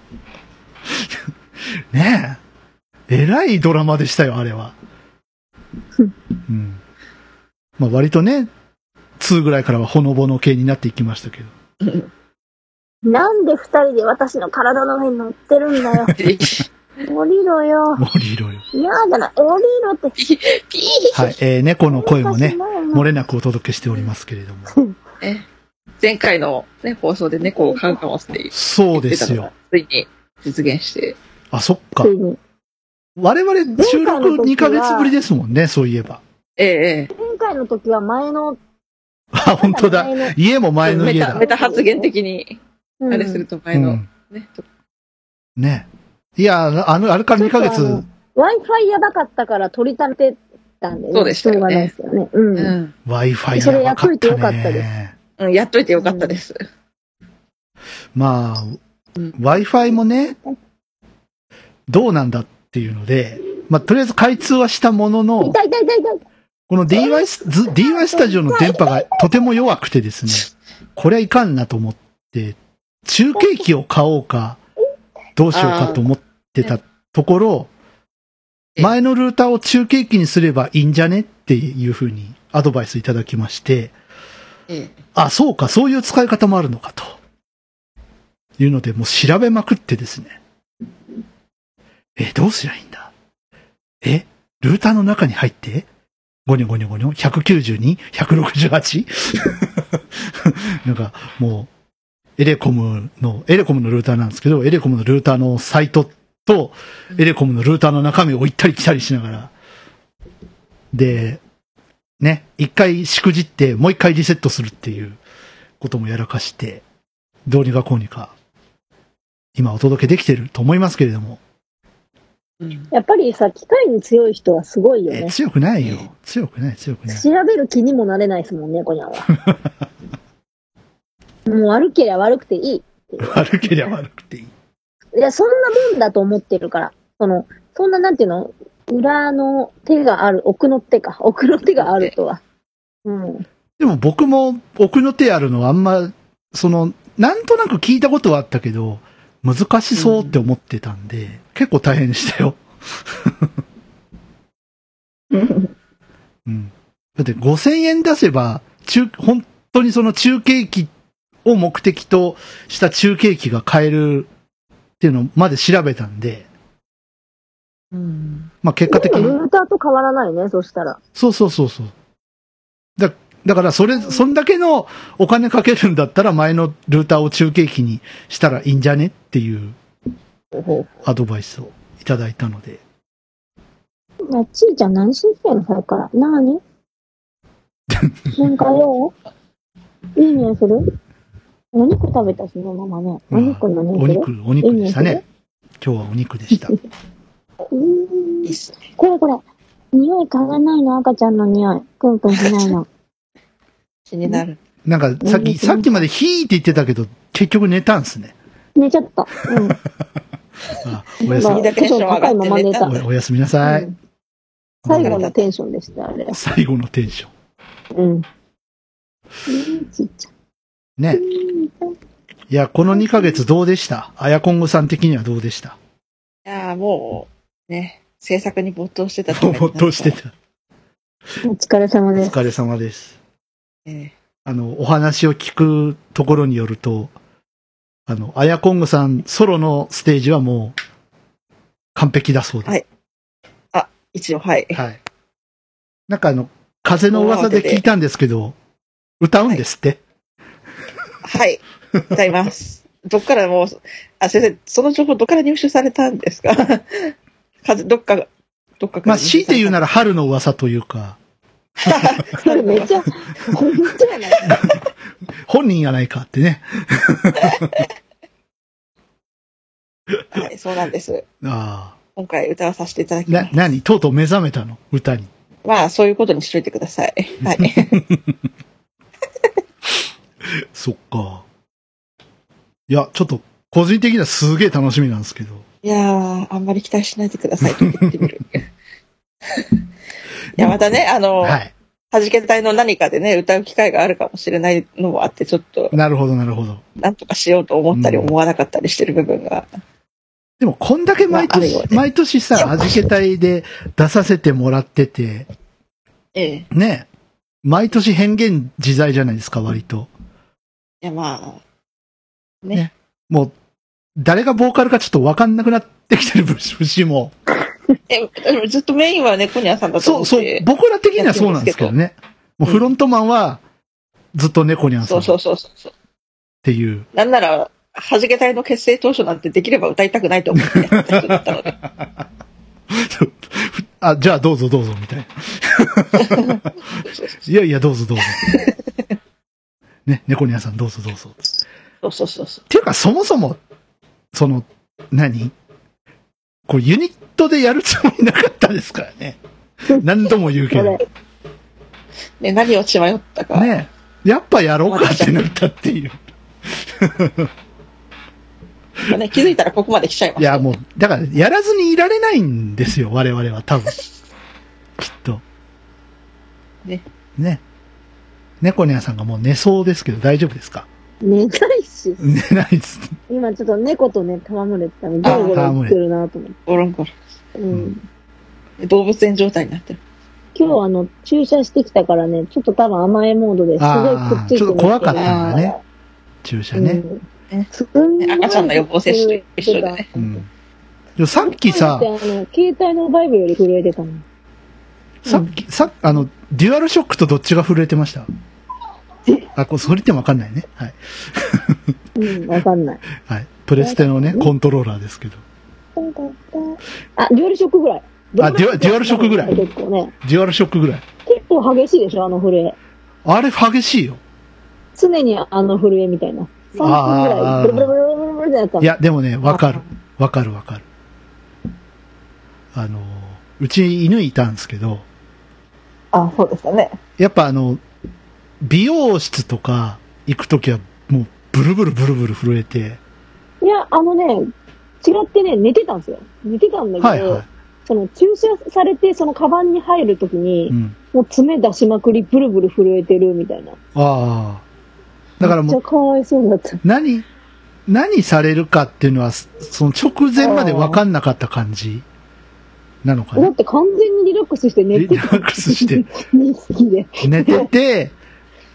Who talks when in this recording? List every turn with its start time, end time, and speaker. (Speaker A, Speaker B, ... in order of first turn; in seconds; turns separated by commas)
Speaker A: 0.9-1.2, Speaker A: 1.9-2.4, Speaker A: 3.1-4.7, Speaker A: 6.5-6.8, Speaker A: 7.8-8.5, Speaker A: 9.2-11.5, Speaker B: 11.8-12.1, Speaker C: 13.0-16.1, Speaker B: 16.1-16.7, Speaker C: 17.1-18.0, Speaker A: 18.0-18.6, Speaker C: 18.7-20.1, Speaker B: 20.2-21.3, Speaker A: 21.1-24.7, Speaker C: 21.9-23.1, Speaker B: 26.0-31.1, Speaker C: 27.4-28.0, Speaker A: 28.5-29.5, Speaker A: 31.5-32.1, Speaker C: 32.0-32.4, Speaker A: 33.2-36.2, Speaker C: 33.7-35.1, Speaker B: 36.6-37.1, Speaker C: 37.1-38.6, Speaker A: 39.3-41.4, Speaker C: 39.5-40.4, Speaker B: 40.9-44.6, Speaker C: 41.3-42.1, Speaker C: 43.0-43.4, Speaker A: 43.7-44.1, Speaker A: 45.6-48.0, Speaker C: 47.4-52.7, Speaker B: 51.1-51.9, Speaker B: 52.5-52.9, Speaker A: 53.0-55.1, Speaker C: 53.5-54.9, Speaker B: 55.4-56.6, Speaker C: 56.0-56.4, Speaker A: 58.1-58.8, Speaker A: 59.4-60.4, Speaker A: 61.9-65.6, Speaker C: 65.4-66.2, Speaker A: 66.7-74.6, Speaker C: 66.9-69.2, Speaker A: 75.4-77.7, Speaker B: 75.5-76.0, Speaker A: 78.8-83.9, Speaker B: 84.7-85.0, Speaker A: 85.1-87.1, Speaker A: 88.6-90.4, Speaker A: 92.2-93.1, Speaker A: 94.0-95.9, Speaker A: 96.5-101.7, Speaker A: 102.4-109.5, Speaker A: 110.9-111.4, Speaker A: 112.2-115.2, Speaker A: 115.8-116.8, Speaker A: 117.5-118.3, Speaker A: 119.5-121.4, Speaker B: 122.6-122.9, Speaker C: 122.9-125.3, Speaker A: 125.1-127.2, Speaker C: 127.1-129.3, Speaker C: 131.4-133.4, Speaker A: 133.2-134.5, Speaker C: 135.2-142.4, Speaker B: 141.8-142.1, Speaker C: 143.0-143.4, Speaker A: 143.8-153.5, Speaker B: 149.9-150.4, Speaker B: 155.3-155.7, Speaker A: 156.4-160.9, Speaker A: 161.4-164.3, Speaker A: 165.0-166.5, Speaker B: 167.9-168.5, Speaker A: 168.6-169.4, Speaker C: 168.9-171.0, Speaker A: 171.2-171.9, Speaker A: 173.0-179.8, Speaker B: 180.5-181.0, Speaker A: 181.0-182.8, Speaker C: 184.3-186.6, Speaker A: 187.9-188.4, Speaker C: 188.4-189.1, Speaker C: 190.2-190.8, Speaker C: 191.7-195.2, Speaker A: 193.3-195.2, Speaker A: 195.8-196.7, Speaker C: 197.7-199.4, Speaker B: 198.4-198.8, Speaker C: 199.9-202.9, Speaker B: 202.3-202.6, Speaker B: 204.1-204.6, Speaker A: 204.8-208.3, Speaker C: 205.2-206.0, Speaker C: 208.8-209.8, Speaker A: 210.8-211.7, Speaker C: 211.2-212.9, Speaker B: 211.2-213.0, Speaker A: 212.8-213.9, Speaker C: 213.6-213.9, Speaker A: 214.8-215.2, Speaker C: 214.9-216.4, Speaker B: 214.9-215.4, Speaker A: 216.3-217.3, Speaker C: 217.9-218.2, Speaker C: 219.5-220.3, Speaker A: 221.0-221.2, Speaker C: 221.1-221.9, Speaker A: 222.5-225.8, Speaker C: 222.9-223.4, Speaker B: 226.4-230.2, Speaker A: 229.3-230.3, Speaker C: 231.4-232.4, Speaker A: 232.2-233.2, Speaker B: 233.9-234.1, Speaker A: 234.4-237.1, Speaker A: 238.1-240.7, Speaker A: 241.9-242.8, Speaker B: 243.7-244.8, Speaker A: 244.7-245.0, Speaker A: 246.1-248.6, Speaker B: 247.1-247.8, Speaker A: 249.2-250.0, Speaker B: 251.2-257.1, Speaker B: 257.6-259.8, Speaker A: 259.0-261.2, Speaker B: 261.8-263.0, Speaker C: 262.4-264.5, Speaker A: 265.4-267.6, Speaker B: 267.4-267.8, Speaker B: 270.3-271.2, Speaker A: 271.4-271.9, Speaker B: 272.1-273.6, Speaker A: 273.3-275.3, Speaker B: 275.6-278.0, Speaker A: 277.6-278.0, Speaker A: 280.5-281.4, Speaker A: 282.9-285.6, Speaker B: 285.8-288.7, Speaker A: 287.6-288.2, Speaker B: 290.6-291.6, Speaker A: 291.4-291.7, Speaker B: 292.1-295.9, Speaker A: 295.9-296.8, Speaker B: 297.0-299.7, Speaker A: 297.9-298.3, Speaker A: 300.6-305.5, Speaker B: 301.3-302.0, Speaker B: 302.6-303.0, Speaker B: 306.4-306.7, Speaker A: 306.7-307.1, Speaker A: 307.6-310.1, Speaker B: 311.0-311.6, Speaker A: 312.7-313.5, Speaker A: 314.2-317.3, Speaker B: 318.1-321.9, Speaker A: 320.0-323.6, Speaker A: 324.3-325.4, Speaker B: 325.0-325.9, Speaker A: 326.6-327.1, Speaker B: 327.1-331.8, Speaker A: 330.7-331.4, Speaker A: 332.9-336.6, Speaker B: 336.2-337.5, Speaker A: 337.4-338.6, Speaker B: 338.2-338.8, Speaker A: 340.1-341.4, Speaker B: 342.0-342.6, Speaker A: 342.7-343.6, Speaker A: 344.3-345.5, Speaker A: 346.7-349.4, Speaker A: 349.9-351.0, Speaker C: 350.7-351.0, Speaker B: 352.4-353.7, Speaker A: 353.5-357.5, Speaker B: 354.9-355.4, Speaker B: 359.0-360.7, Speaker A: 360.4-364.0, Speaker A: 365.0-365.4, Speaker A: 367.4-367.6, Speaker A: 368.6-370.9, Speaker C: 371.2-372.3, Speaker A: 372.2-373.1, Speaker C: 373.3-376.6, Speaker B: 375.2-375.6, Speaker A: 375.3-376.0, Speaker B: 376.7-377.1, Speaker C: 377.6-378.0, Speaker B: 378.8-380.0, Speaker C: 380.5-385.8, Speaker A: 383.8-385.8, Speaker B: 385.1-385.7, Speaker A: 386.4-387.0, Speaker C: 386.7-390.4, Speaker B: 388.2-390.0, Speaker A: 390.1-390.4, Speaker A: 391.2-392.1, Speaker C: 391.4-394.2, Speaker A: 395.2-398.3, Speaker A: 399.5-401.9, Speaker C: 402.1-403.0, Speaker A: 403.2-405.4, Speaker C: 403.8-404.5, Speaker C: 406.0-410.1, Speaker A: 408.4-409.6, Speaker A: 410.2-411.0, Speaker C: 411.2-412.8, Speaker A: 413.2-414.2, Speaker C: 414.9-418.9, Speaker A: 416.8-417.9, Speaker A: 418.8-420.8, Speaker B: 419.5-419.8, Speaker A: 422.7-425.0, Speaker B: 426.1-427.0, Speaker A: 427.2-427.8, Speaker A: 428.6-433.0, Speaker C: 433.6-434.5, Speaker C: 435.0-443.8, Speaker A: 437.0-437.5, Speaker A: 440.7-440.9, Speaker A: 443.9-444.6, Speaker A: 445.4-445.8, Speaker C: 445.4-446.8, Speaker A: 446.8-447.3, Speaker A: 447.9-452.0, Speaker B: 450.5-450.8, Speaker A: 453.0-453.5, Speaker C: 453.4-457.7, Speaker A: 454.9-456.1, Speaker A: 457.2-458.1